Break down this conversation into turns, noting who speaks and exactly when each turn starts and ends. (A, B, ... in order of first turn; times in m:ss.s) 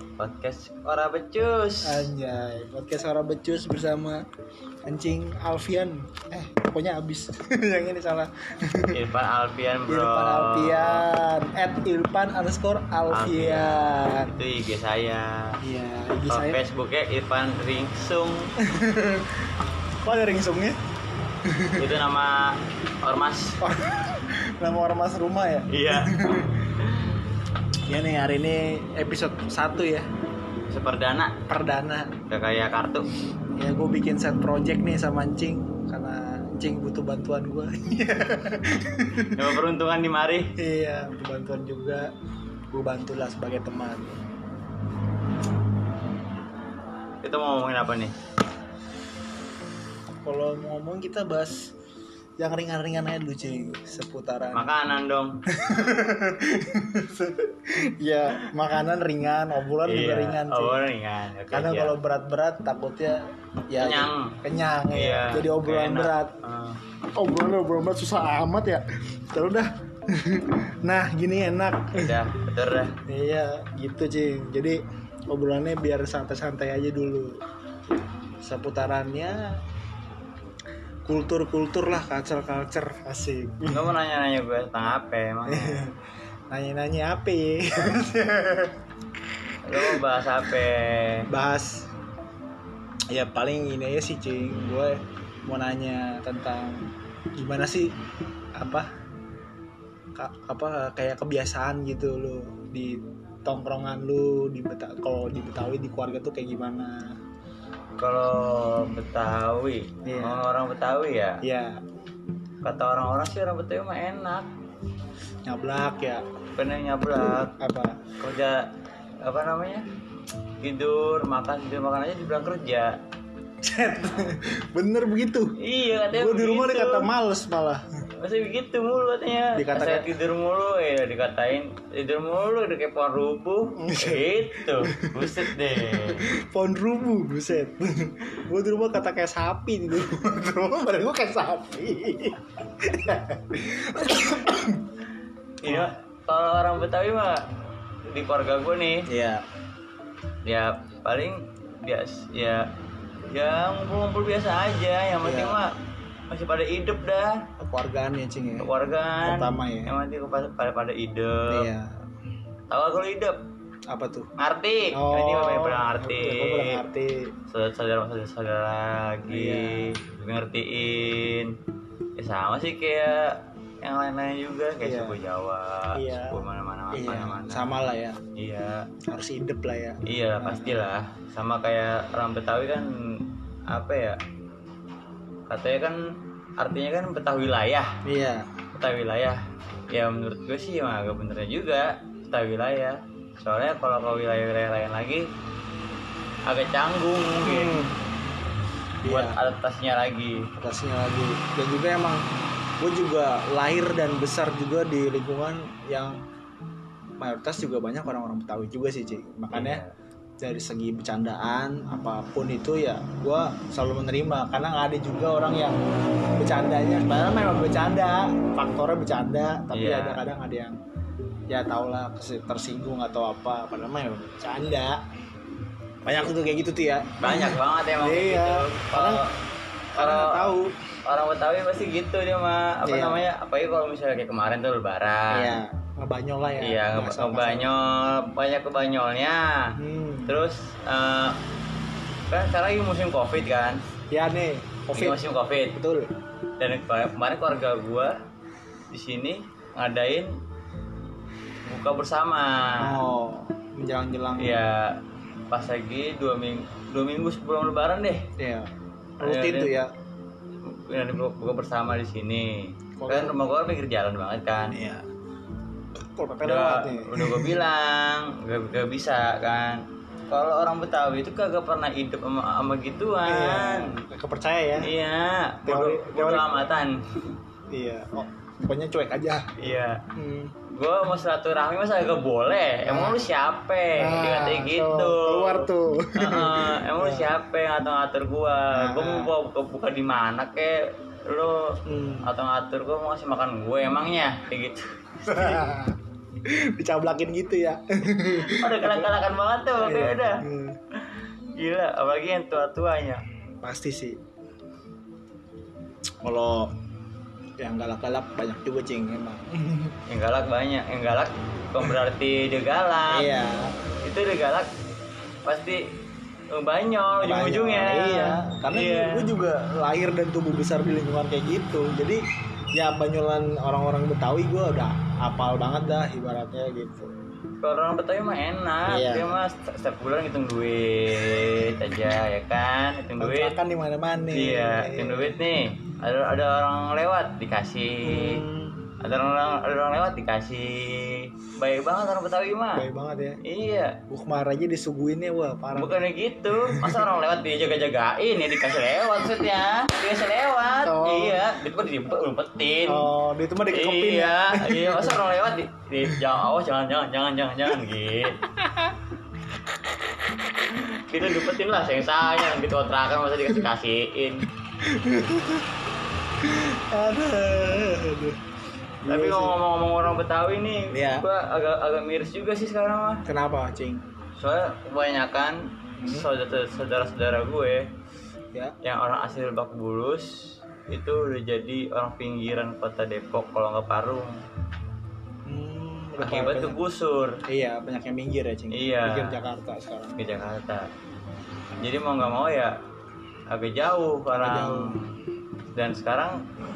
0:00.2-0:02.1 A
0:01.8-0:04.2 B
0:04.8-0:08.9 B
0:08.9-0:11.0 A
0:09.9-0:14.3 B
0:13.1-0:15.5 A
0:15.6-0:16.6 B
0:16.3-0:18.5 A
0:18.6-0:19.5 B
0:20.0-0:20.8 B
0:21.5-0:21.8 B
0:21.8-0:23.6 A
0:23.6-0:26.7 B
0:25.7-0:26.1 A
0:26.8-0:27.2 A
0:27.9-0:30.0 B
0:30.7-0:31.3 A
0:31.5-0:32.1 B
0:32.3-0:33.1 A
0:33.6-0:39.4 B
0:39.3-0:40.5 A
0:40.6-0:42.1 B
0:42.7-0:44.1 B
0:47.2-0:48.1 A
0:50.2-0:51.7 B
0:52.4-0:54.7 B
0:54.5-0:55.4 A
0:55.5-1:00.9 B
0:59.8-1:01.9 A
1:01.5-1:06.3 B
1:03.8-1:04.4 A
1:04.9-1:06.8 A
1:07.2-1:12.1 B
1:11.9-1:12.9 A
1:13.1-1:14.8 B
1:15.3-1:17.4 B
1:18.4-1:19.4 B
1:21.0-1:23.9 B
1:23.7-1:25.8 A
1:25.4-1:25.9 B
1:26.5-1:28.7 B
1:29.6-1:31.2 A
1:31.3-1:31.9 B
1:33.1-1:36.8 B
1:37.4-1:37.9 B
1:38.6-1:38.8 B
1:40.2-1:47.1 B
1:48.0-1:51.4 A
1:50.0-1:50.4 B
1:51.4-1:51.8 B
1:52.6-1:54.5 A
1:55.5-1:56.2 B
1:56.6-1:57.5 A
1:57.6-1:58.0 B
1:58.2-1:58.6 A
1:59.2-1:59.8 A
2:00.6-2:02.9 A
2:03.6-2:05.5 B
2:05.6-2:07.1 A
2:06.0-2:07.8 B
2:08.2-2:16.2 A
2:09.5-2:10.1 B
2:13.8-2:24.9 B
2:25.6-2:25.9 B
2:25.6-2:27.4 A
2:28.1-2:29.0 A
2:29.1-2:29.4 B
2:30.4-2:32.6 A
2:33.3-2:35.7 A
2:35.2-2:35.6 B
2:36.3-2:37.3 A
2:37.6-2:38.7 B
2:38.6-2:41.7 A
2:39.2-2:39.9 B
2:41.5-2:41.9 B
2:42.7-2:43.4 A
2:43.9-2:44.3 B
2:44.4-2:46.8 A
2:44.9-2:47.2 B
2:47.5-2:51.5 A
2:49.3-2:49.9 B
2:52.2-2:57.8 A
2:54.8-2:55.2 B
2:55.9-2:58.2 B
2:58.4-2:58.8 A
2:59.1-3:00.9 B
3:00.0-3:02.8 A
3:03.7-3:04.2 A
3:05.5-3:06.0 A
3:06.6-3:07.9 A
3:08.0-3:08.5 B
3:08.7-3:09.4 A
3:09.9-3:15.2 A
3:16.5-3:17.8 A
3:17.4-3:18.0 B
3:19.0-3:19.4 B
3:19.0-3:20.4 A
3:20.6-3:22.2 B
3:22.8-3:26.2 B
3:27.2-3:29.8 B
3:29.5-3:29.9 A
3:30.4-3:35.8 B
3:36.4-3:40.8 B
3:39.7-3:40.2 A
3:41.5-3:45.0 B
3:46.0-3:49.2 B
3:47.2-3:49.3 A
3:49.9-3:50.7 B
3:50.0-3:50.5 A
3:51.1-3:55.6 A
3:52.8-3:53.3 B
3:55.3-3:57.7 B
3:56.6-3:59.6 A
3:59.8-4:00.4 B
4:00.3-4:01.3 A
4:02.3-4:03.8 A
4:04.1-4:05.2 B
4:05.0-4:05.7 A
4:05.8-4:06.1 B
4:06.6-4:08.1 A
4:08.9-4:10.3 A
4:11.7-4:12.9 A
4:12.8-4:14.6 B
4:14.4-4:14.9 A
4:15.5-4:18.2 A
4:18.4-4:18.7 B
4:19.2-4:19.9 B
4:19.2-4:19.7 A
4:20.9-4:24.8 A
4:23.0-4:23.4 B
4:24.7-4:25.0 B
4:26.1-4:27.6 B
4:26.4-4:34.0 A
4:33.3-4:34.9 B
4:34.8-4:37.0 A
4:35.6-4:36.7 B
4:37.7-4:39.4 B
4:39.6-4:40.0 A
4:40.2-4:40.5 B
4:40.7-4:45.7 A
4:42.8-4:43.3 B
4:44.0-4:47.3 B
4:46.2-4:51.7 A
4:48.7-4:49.3 B
4:51.9-4:52.3 B
4:52.2-4:55.6 A
4:55.2-4:56.0 B
4:56.5-4:59.1 B
4:58.3-5:00.4 A
4:59.8-5:00.8 B
5:01.0-5:03.2 A
5:03.6-5:04.2 B
5:06.2-5:06.7 B
5:07.6-5:09.9 B
5:10.1-5:13.3 A
5:13.1-5:13.7 B
5:14.0-5:14.7 A
5:15.4-5:15.8 A
5:16.5-5:19.3 A
5:17.2-5:22.2 B
5:22.8-5:27.1 B
5:27.6-5:33.5 A
5:28.9-5:29.4 B
5:33.2-5:35.4 B
5:34.3-5:38.4 A
5:38.0-5:38.8 B
5:39.0-5:42.8 A
5:42.7-5:43.4 B
5:43.4-5:44.0 A
5:44.1-5:46.0 B
5:45.7-5:53.1 A
5:46.6-5:47.0 B
5:50.8-5:51.4 B
5:52.9-5:55.2 B
5:53.7-5:58.4 A
5:58.6-5:59.0 B
6:00.6-6:04.5 A
6:04.8-6:05.7 B
6:06.4-6:08.4 B
6:09.0-6:09.6 B
6:09.1-6:13.2 A
6:10.9-6:11.2 B
6:13.2-6:14.0 B
6:14.4-6:17.8 A
6:16.0-6:16.3 B
6:18.8-6:20.3 A
6:20.9-6:24.3 A
6:25.5-6:26.8 B
6:26.2-6:27.4 A
6:27.5-6:30.2 B
6:28.7-6:29.3 A
6:30.2-6:30.8 A
6:31.8-6:32.7 A
6:33.5-6:35.1 A
6:34.4-6:34.9 B
6:35.7-6:36.4 A